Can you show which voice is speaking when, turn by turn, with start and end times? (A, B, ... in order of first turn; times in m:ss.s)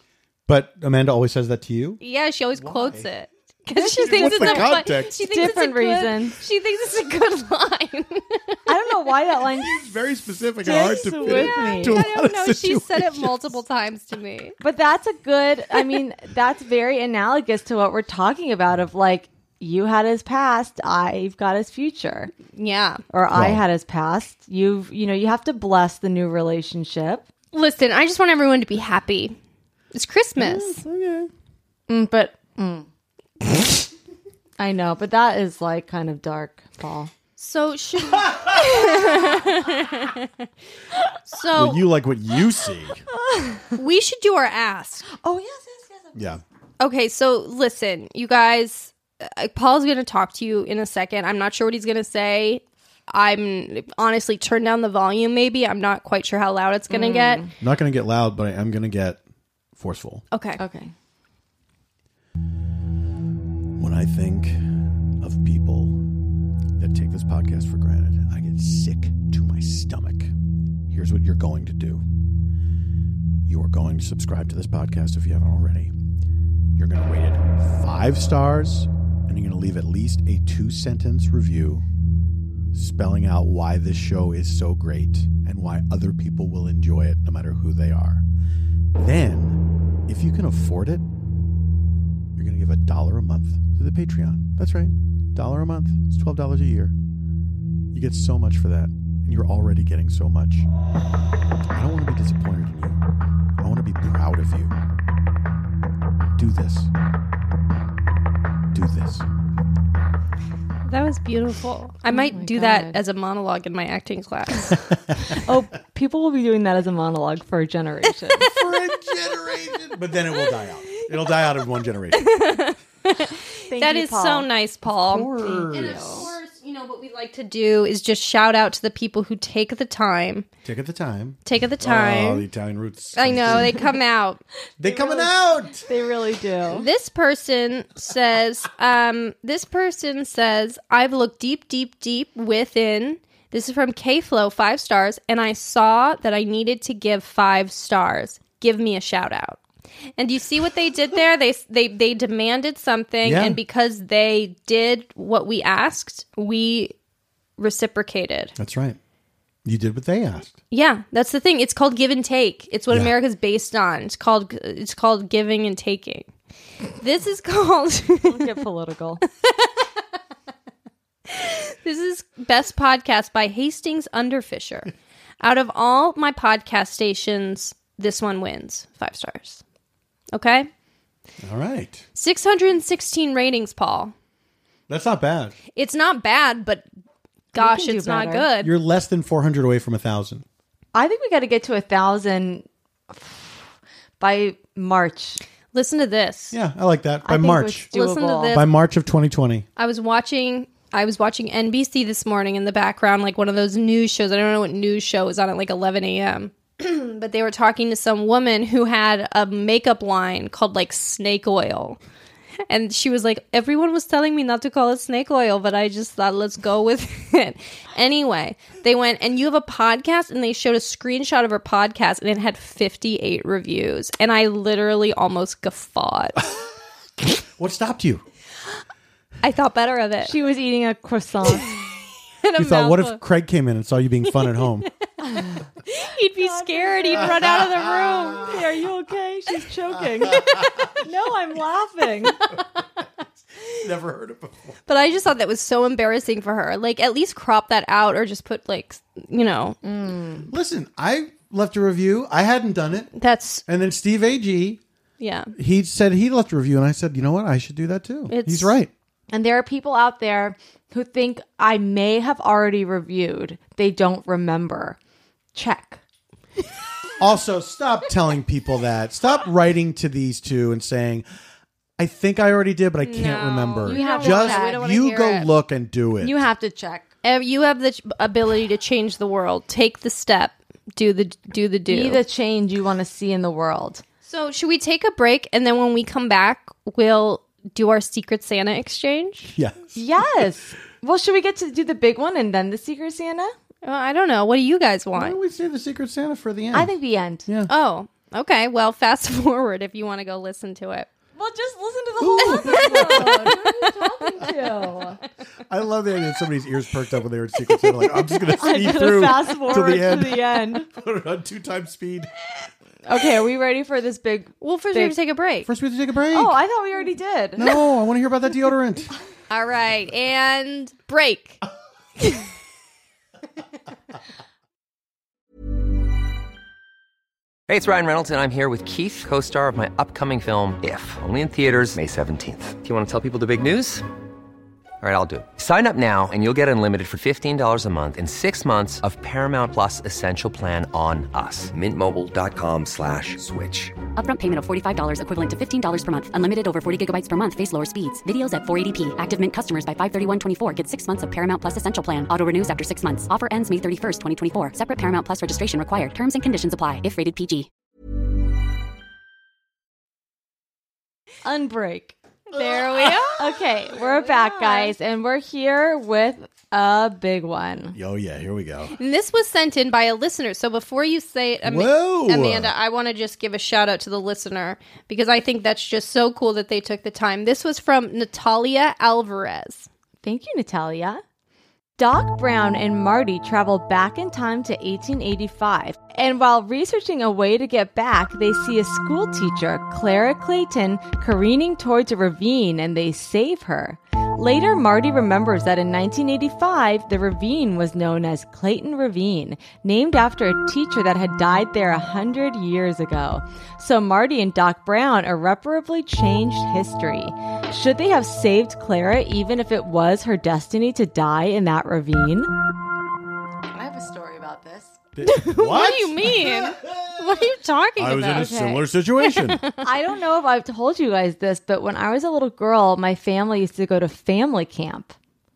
0:00.5-0:02.0 A
0:02.0-0:08.6 B
0:02.6-0:03.1 A
0:03.8-0:05.2 A
0:03.8-0:06.4 C
0:08.7-0:09.8 C
0:09.5-0:13.6 A
0:10.6-0:12.0 C
0:10.8-0:14.6 B
0:14.6-0:22.3 C
0:22.5-0:23.0 B
0:23.1-0:27.3 C
0:23.3-0:23.6 A
0:27.5-0:29.4 B
0:29.9-0:30.8 B
0:30.4-0:31.3 A
0:31.9-0:32.9 C
0:34.6-0:37.1 C
0:37.4-0:40.3 B
0:38.2-0:38.6 A
0:41.3-0:41.8 B
0:41.5-0:43.0 A
0:43.1-0:43.8 C
0:43.8-0:45.1 B
0:45.1-0:46.2 C
0:46.1-0:46.4 A
0:46.8-0:57.4 B
0:56.9-0:57.5 C
0:57.6-0:59.2 A
0:59.8-1:00.2 A
1:00.3-1:00.6 B
1:00.6-1:00.9 C
1:03.8-1:06.0 A
1:06.8-1:10.3 A
1:10.9-1:12.0 A
1:13.4-1:15.9 A
1:16.8-1:21.9 A
1:22.7-1:28.2 A
1:28.9-1:31.1 A
1:32.4-1:37.0 A
1:37.9-1:40.7 A
1:41.7-1:43.0 A
1:43.6-1:44.7 A
1:46.4-1:46.9 A
1:48.7-1:49.3 A
1:50.9-1:54.8 B
1:52.1-1:53.0 C
1:55.3-1:58.5 C
1:58.5-2:02.3 A
2:02.1-2:10.5 B
2:03.7-2:04.5 C
2:04.8-2:06.3 A
2:05.4-2:06.3 C
2:10.6-2:13.9 A
2:11.4-2:12.5 B
2:13.2-2:14.4 B
2:14.8-2:15.9 A
2:14.9-2:15.3 C
2:15.8-2:16.9 C
2:16.7-2:29.6 B
2:30.2-2:36.9 B
2:33.2-2:33.6 A
2:37.6-2:38.5 B
2:38.6-2:39.0 A
2:39.6-2:40.6 A
2:40.7-2:46.3 B
2:47.0-2:48.6 B
2:48.3-2:49.2 C
2:49.4-2:49.7 B
2:51.3-2:59.6 B
3:00.3-3:00.7 B
3:01.4-3:02.0 A
3:02.2-3:04.1 B
3:04.9-3:05.6 A
3:05.8-3:06.8 B
3:07.5-3:08.7 B
3:07.6-3:08.5 C
3:08.6-3:10.4 A
3:10.9-3:13.6 C
3:14.2-3:15.4 C
3:15.7-3:16.6 B
3:16.5-3:17.9 A
3:17.2-3:18.6 C
3:17.9-3:18.7 B
3:18.5-3:19.6 A
3:19.8-3:32.0 B
3:32.7-3:46.4 B
3:47.6-3:48.2 A
3:49.4-3:50.3 B
3:50.2-3:51.8 C
3:52.4-3:53.2 B
3:52.6-3:54.9 A
3:54.4-3:54.9 B
3:55.2-3:55.6 C
3:55.4-3:58.5 B
3:56.4-4:02.4 C
3:57.2-3:58.6 A
4:00.2-4:00.9 A
4:03.6-4:04.8 A
4:04.9-4:09.8 B
4:09.8-4:10.5 C
4:10.5-4:13.1 A
4:13.2-4:13.6 B
4:13.7-4:14.8 A
4:15.2-4:15.5 B
4:15.5-4:18.9 A
4:18.3-4:18.8 B
4:19.3-4:25.0 C
4:25.6-4:26.0 C
4:27.2-4:31.2 A
4:32.0-4:36.4 A
4:33.0-4:35.5 B
4:33.9-4:34.8 C
4:36.2-4:37.1 C
4:37.2-4:42.2 B
4:41.9-4:44.0 C
4:44.2-4:49.5 B
4:49.5-4:50.0 A
4:50.0-4:53.5 C
4:53.8-4:55.4 B
4:55.1-4:56.9 A
4:56.7-4:57.5 C
4:57.7-5:01.1 B
5:01.4-5:05.2 C
5:02.2-5:03.6 A
5:02.4-5:04.1 B
5:05.7-5:12.3 A
5:08.6-5:10.9 C
5:13.0-5:15.2 C
5:14.6-5:15.7 B
5:15.6-5:16.6 A
5:16.3-5:17.7 C
5:17.6-5:19.1 A
5:19.5-5:21.6 B
5:27.7-5:34.0 D
5:35.0-5:44.0 D
5:44.1-5:57.7 E
6:01.4-6:02.2 C
6:02.5-6:04.9 B
6:02.5-6:03.1 A
6:03.4-6:08.0 C
6:08.0-6:09.0 A
6:09.0-6:19.9 B
6:11.6-6:12.7 A
6:20.2-6:21.2 C
6:22.0-6:52.5 C
6:53.7-6:55.0 C
6:55.2-6:57.1 A
6:55.2-6:58.6 B
6:58.0-6:59.6 A
6:58.3-6:58.8 C
6:59.2-6:59.8 B
6:59.8-7:05.1 C